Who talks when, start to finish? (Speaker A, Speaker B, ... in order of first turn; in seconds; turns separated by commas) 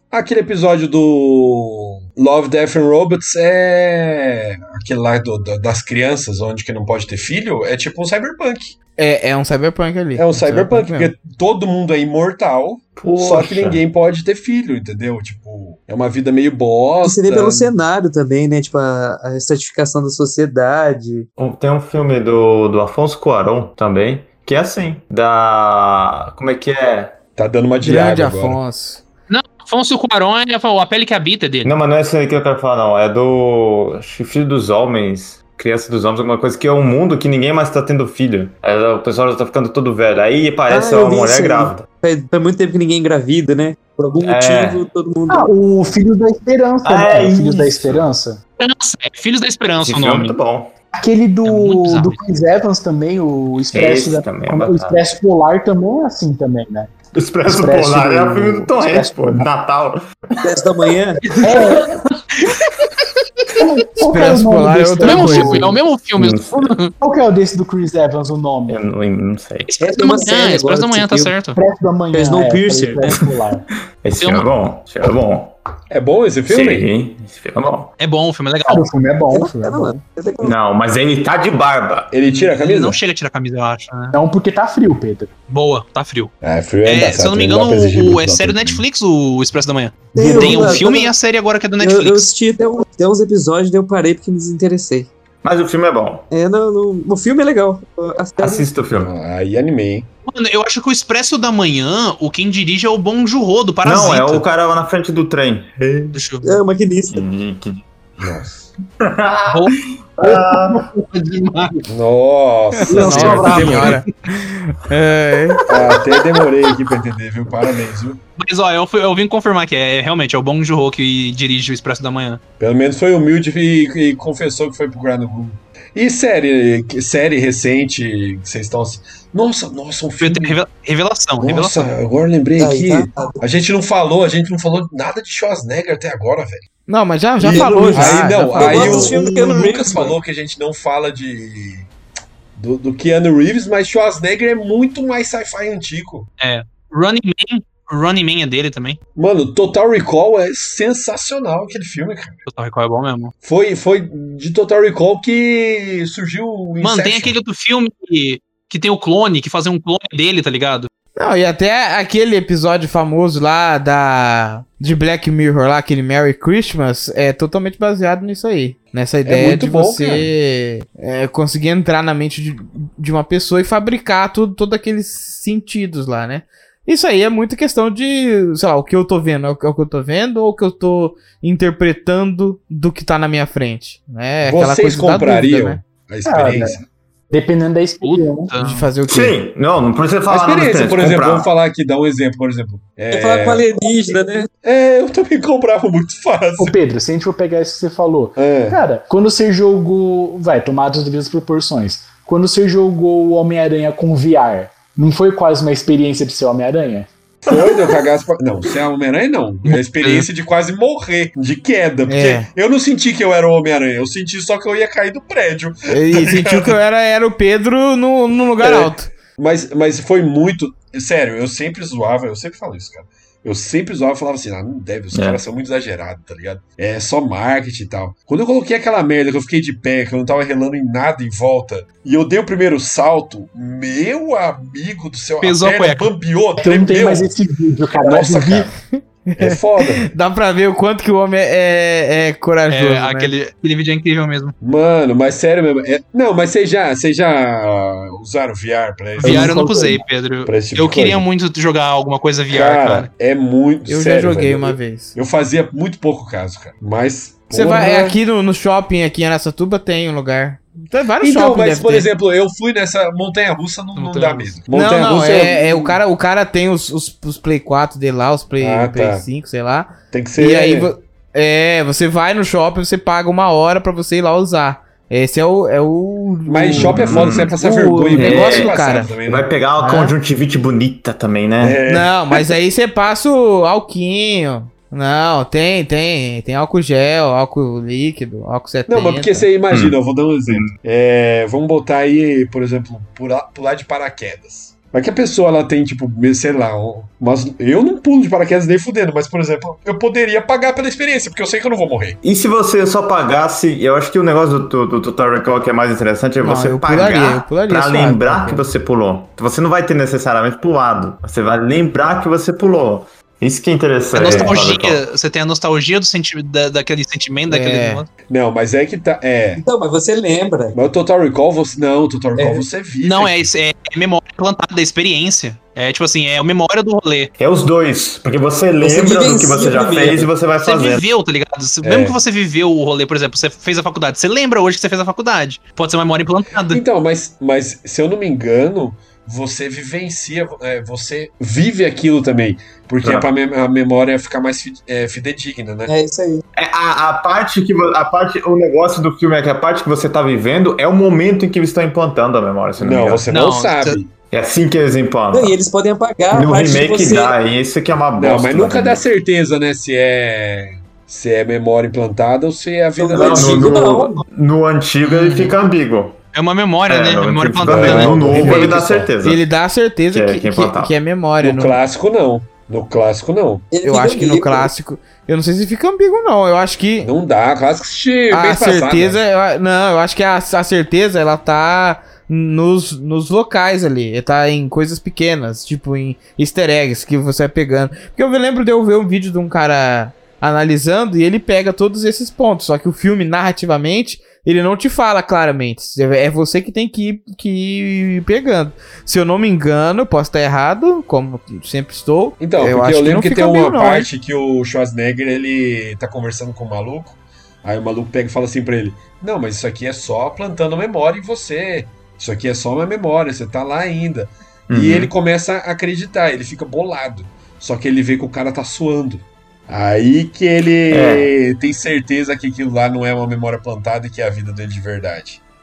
Speaker A: 0.1-8.8, Speaker B: 9.0-11.1, Speaker A: 10.2-17.7, Speaker C: 12.9-13.8, Speaker D: 17.0-21.3, Speaker C: 21.4-27.2, Speaker A: 27.4-28.6, Speaker B: 27.8-29.0, Speaker E: 29.3-31.8, Speaker C: 31.6-41.8, Speaker D: 40.7-45.5, Speaker C: 44.2-44.9, Speaker F: 45.3-48.4, Speaker C: 46.8-48.0, Speaker E: 48.6-50.4, Speaker C: 49.8-50.7, Speaker F: 51.0-56.9, Speaker E: 51.4-52.2, Speaker C: 53.7-55.0, Speaker C: 57.1-60.5, Speaker F: 57.4-59.5, Speaker D: 60.4-61.4, Speaker E: 61.3-61.8, Speaker F: 61.4-62.0, Speaker F: 63.5-65.8, Speaker B: 64.0-65.7, Speaker E: 65.0-66.9, Speaker C: 66.2-66.7, Speaker F: 67.0-68.8, Speaker C: 68.7-69.7, Speaker D: 69.8-71.4, Speaker E: 69.8-71.6, Speaker F: 71.5-73.7, Speaker D: 72.1-73.2, Speaker C: 74.0-75.5, Speaker E: 74.2-74.4, Speaker A: 75.9-76.9, Speaker C: 76.5-77.9, Speaker E: 78.0-78.8, Speaker F: 78.7-80.0, Speaker D: 79.3-80.5, Speaker C: 80.4-82.1, Speaker A: 82.1-83.0, Speaker E: 82.3-84.2, Speaker F: 84.1-85.3, Speaker E: 85.5-86.3, Speaker A: 86.4-88.8, Speaker E: 86.8-92.3, Speaker A: 90.1-90.8, Speaker D: 90.2-91.1, Speaker D: 91.8-95.1, Speaker C: 95.4-96.3, Speaker D: 96.3-98.8, Speaker C: 98.4-99.1, Speaker A: 98.9-100.1, Speaker E: 100.2-104.4, Speaker C: 103.8-106.2, Speaker E: 106.1-106.5, Speaker D: 106.4-107.2, Speaker C: 107.1-107.8, Speaker A: 108.2-108.7, Speaker C: 109.0-110.8, Speaker E: 109.5-109.7, Speaker F: 110.2-111.8, Speaker A: 111.9-114.0, Speaker B: 112.8-115.6, Speaker F: 113.0-113.7, Speaker C: 113.1-113.7, Speaker E: 113.4-113.9, Speaker A: 115.7-118.2, Speaker E: 118.4-122.4, Speaker A: 122.6-130.6, Speaker E: 130.2-131.9, Speaker A: 131.4-136.6, Speaker D: 132.6-133.4, Speaker B: 136.9-139.1, Speaker A: 137.4-141.9, Speaker D: 137.4-140.2, Speaker C: 139.1-139.8, Speaker A: 142.6-146.3, Speaker E: 146.4-149.0, Speaker A: 149.2-152.4, Speaker E: 152.5-153.3, Speaker A: 153.4-157.3, Speaker E: 156.8-160.9, Speaker B: 161.2-185.8, Speaker A: 169.2-170.3, Speaker A: 184.4-186.8, Speaker F: 186.2-186.8, Speaker F: 187.3-188.5, Speaker E: 188.0-188.9, Speaker B: 188.6-189.3, Speaker C: 189.1-191.5, Speaker A: 190.3-193.7, Speaker D: 193.1-194.5, Speaker A: 194.6-196.8, Speaker F: 196.6-207.1, Speaker A: 198.3-198.8, Speaker A: 207.4-216.8, Speaker C: 207.5-207.9, Speaker E: 209.7-210.3, Speaker B: 212.0-212.5, Speaker B: 215.9-219.1, Speaker A: 218.6-237.3, Speaker C: 225.1-225.4, Speaker E: 235.4-236.1, Speaker F: 236.6-238.7, Speaker A: 238.0-238.7, Speaker A: 239.4-240.1, Speaker B: 239.4-243.3, Speaker E: 242.7-244.5, Speaker A: 244.6-249.9, Speaker E: 249.2-253.1, Speaker F: 249.3-249.9, Speaker A: 250.4-251.2, Speaker A: 252.5-258.2, Speaker B: 253.8-255.1, Speaker B: 257.5-262.1, Speaker A: 261.2-266.0, Speaker E: 263.9-264.6, Speaker B: 264.7-279.1, Speaker A: 268.6-269.2, Speaker A: 270.1-270.9, Speaker A: 276.5-279.5, Speaker C: 276.7-277.6, Speaker C: 278.1-281.8, Speaker B: 279.8-280.1, Speaker A: 281.6-282.4, Speaker B: 281.9-289.5, Speaker A: 288.9-302.2, Speaker C: 289.7-289.9, Speaker C: 302.2-315.0, Speaker B: 306.4-308.6, Speaker E: 314.1-318.1, Speaker D: 314.3-314.6, Speaker B: 317.5-318.0, Speaker A: 318.3-319.6, Speaker D: 319.6-320.8, Speaker A: 320.7-323.5, Speaker D: 322.4-322.6, Speaker E: 323.0-327.3, Speaker C: 327.4-331.0, Speaker D: 328.8-330.3, Speaker E: 330.6-336.8, Speaker A: 331.8-332.2, Speaker A: 336.7-345.9, Speaker C: 343.0-343.3, Speaker D: 345.9-346.4, Speaker C: 346.6-353.2, Speaker A: 352.8-354.1, Speaker E: 353.3-354.0, Speaker C: 354.3-355.6, Speaker D: 355.3-357.3, Speaker C: 356.3-359.0, Speaker A: 358.2-363.8, Speaker D: 363.0-364.2, Speaker C: 363.1-366.2, Speaker E: 365.0-365.6, Speaker E: 366.3-368.8, Speaker C: 366.9-369.4, Speaker A: 367.6-369.1, Speaker B: 369.2-371.8, Speaker C: 370.1-370.9, Speaker A: 371.4-373.6, Speaker D: 373.7-374.7, Speaker B: 373.8-377.1, Speaker A: 377.0-379.2, Speaker B: 378.3-404.1, Speaker A: 402.4-425.4, Speaker C: 414.7-415.1, Speaker C: 420.9-421.3